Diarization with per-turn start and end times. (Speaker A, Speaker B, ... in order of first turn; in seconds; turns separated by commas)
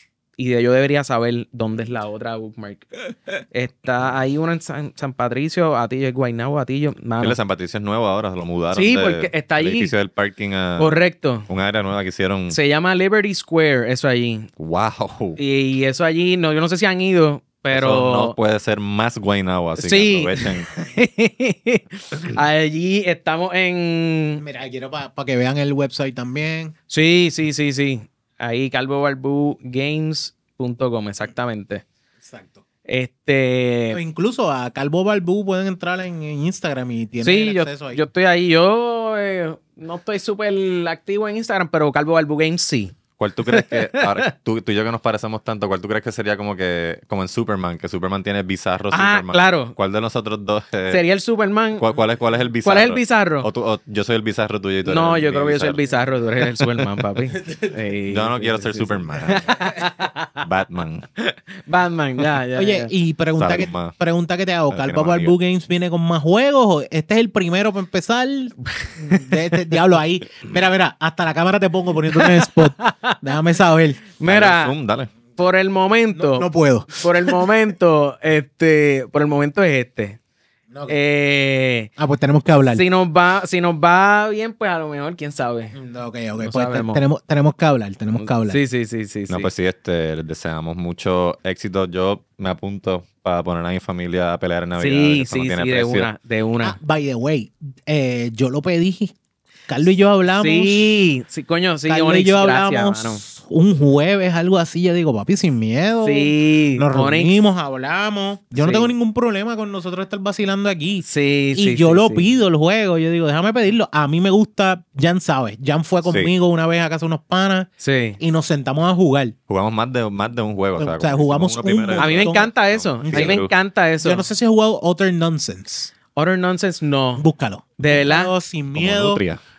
Speaker A: 0.4-7.3, Speaker B: 7.2-12.6, Speaker A: 8.7-9.9, Speaker A: 10.8-11.5, Speaker A: 12.5-14.5, Speaker B: 14.6-15.4, Speaker A: 15.4-18.3, Speaker B: 17.7-20.7, Speaker A: 19.8-24.4, Speaker C: 24.4-26.7, Speaker A: 26.9-31.8, Speaker C: 32.2-32.6, Speaker A: 32.9-34.0, Speaker C: 33.9-38.0, Speaker A: 37.2-43.0, Speaker B: 43.2-51.0, Speaker A: 43.5-44.3, Speaker A: 48.9-49.7, Speaker A: 50.9-51.9, Speaker B: 51.8-55.8, Speaker A: 52.6-53.5, Speaker A: 54.8-60.4, Speaker B: 56.4-56.8, Speaker C: 57.4-57.7, Speaker B: 58.1-59.7, Speaker B: 60.4-61.1, Speaker A: 61.2-62.9, Speaker C: 62.5-74.0, Speaker B: 63.4-63.9, Speaker B: 64.7-65.3, Speaker A: 68.7-69.4, Speaker A: 72.1-73.2, Speaker A: 74.2-74.7, Speaker B: 74.2-75.1, Speaker A: 75.3-80.2, Speaker C: 76.1-77.5, Speaker C: 80.7-81.0, Speaker A: 80.9-81.9, Speaker C: 82.0-82.8, Speaker A: 82.7-85.7, Speaker C: 85.7-88.6, Speaker A: 86.4-87.0, Speaker A: 88.2-89.5, Speaker B: 89.3-96.1, Speaker A: 94.8-96.8, Speaker C: 96.6-99.1, Speaker C: 99.7-101.0, Speaker A: 100.3-103.2, Speaker C: 101.9-119.3, Speaker A: 106.0-107.3, Speaker A: 108.6-108.9, Speaker A: 111.0-112.3, Speaker B: 116.0-116.3, Speaker A: 117.8-118.2, Speaker B: 119.5-123.5, Speaker C: 120.8-122.5, Speaker A: 122.0-124.2, Speaker C: 123.0-123.4, Speaker C: 124.0-125.9, Speaker A: 126.1-127.2, Speaker C: 127.2-129.2, Speaker A: 127.8-128.3, Speaker B: 128.7-129.4